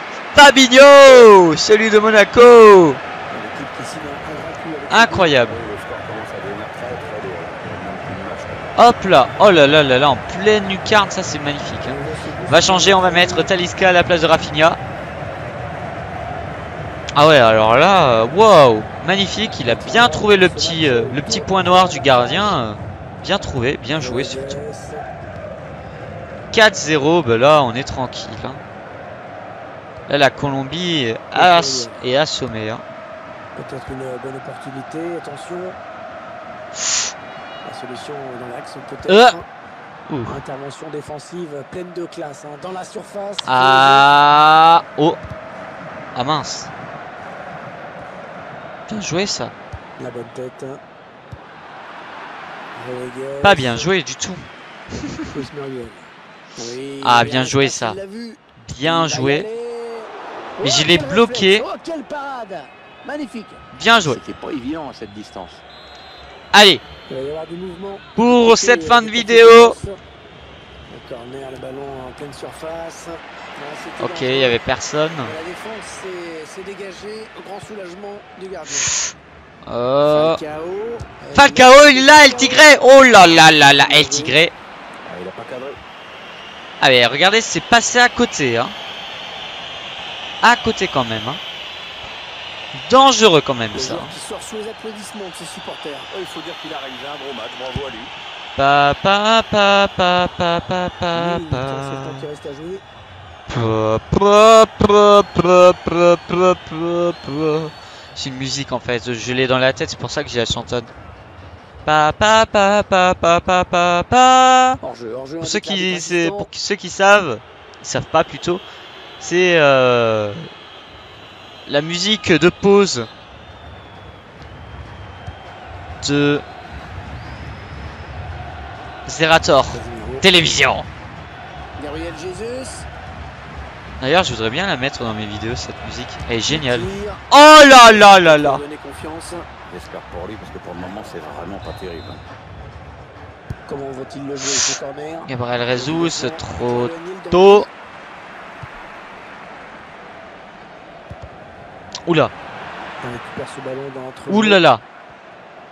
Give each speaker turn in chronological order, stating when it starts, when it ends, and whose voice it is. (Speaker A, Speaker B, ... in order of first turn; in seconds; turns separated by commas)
Speaker A: 0.3-3.0, Speaker B: 3.3-5.4, Speaker A: 4.9-5.6, Speaker C: 5.4-8.7, Speaker A: 8.8-14.8, Speaker B: 11.8-13.5, Speaker A: 17.1-24.6, Speaker B: 19.6-22.6, Speaker B: 24.0-25.1, Speaker A: 26.5-28.6, Speaker A: 30.1-32.8, Speaker B: 31.3-32.0, Speaker B: 33.5-35.8, Speaker B: 37.6-39.4, Speaker A: 39.1-39.4, Speaker A: 40.1-40.4, Speaker B: 40.2-44.0, Speaker A: 43.5-45.2, Speaker A: 46.1-46.7, Speaker A: 48.9-49.5, Speaker B: 50.0-50.8, Speaker B: 52.7-53.9, Speaker A: 53.4-54.5, Speaker A: 55.0-55.3, Speaker B: 55.3-63.6, Speaker A: 57.0-58.0, Speaker A: 58.6-59.5, Speaker A: 60.6-61.6, Speaker A: 63.7-64.2, Speaker C: 64.0-65.6, Speaker A: 66.5-66.8, Speaker B: 67.1-70.0, Speaker A: 68.2-69.8, Speaker B: 70.9-74.6, Speaker A: 74.0-75.3, Speaker B: 75.2-78.9, Speaker A: 79.7-80.4, Speaker B: 80.0-82.7, Speaker A: 81.3-84.5, Speaker B: 83.6-84.4, Speaker C: 85.0-85.8, Speaker A: 86.8-88.7, Speaker A: 90.4-91.4, Speaker A: 92.8-94.1, Speaker B: 93.7-96.1, Speaker C: 96.1-98.1, Speaker A: 98.5-102.2, Speaker B: 101.1-102.8, Speaker A: 103.5-110.9, Speaker A: 111.8-114.8, Speaker B: 114.8-116.5, Speaker A: 115.4-118.6, Speaker A: 119.2-120.5, Speaker A: 121.7-123.1, Speaker A: 126.0-126.4, Speaker A: 129.1-130.9, Speaker B: 129.7-130.2, Speaker B: 131.8-132.9, Speaker A: 134.0-138.6, Speaker B: 136.5-139.5, Speaker C: 139.7-142.2, Speaker B: 143.7-147.7, Speaker A: 145.2-147.7, Speaker A: 152.1-152.3, Speaker B: 153.0-154.6, Speaker A: 154.3-154.8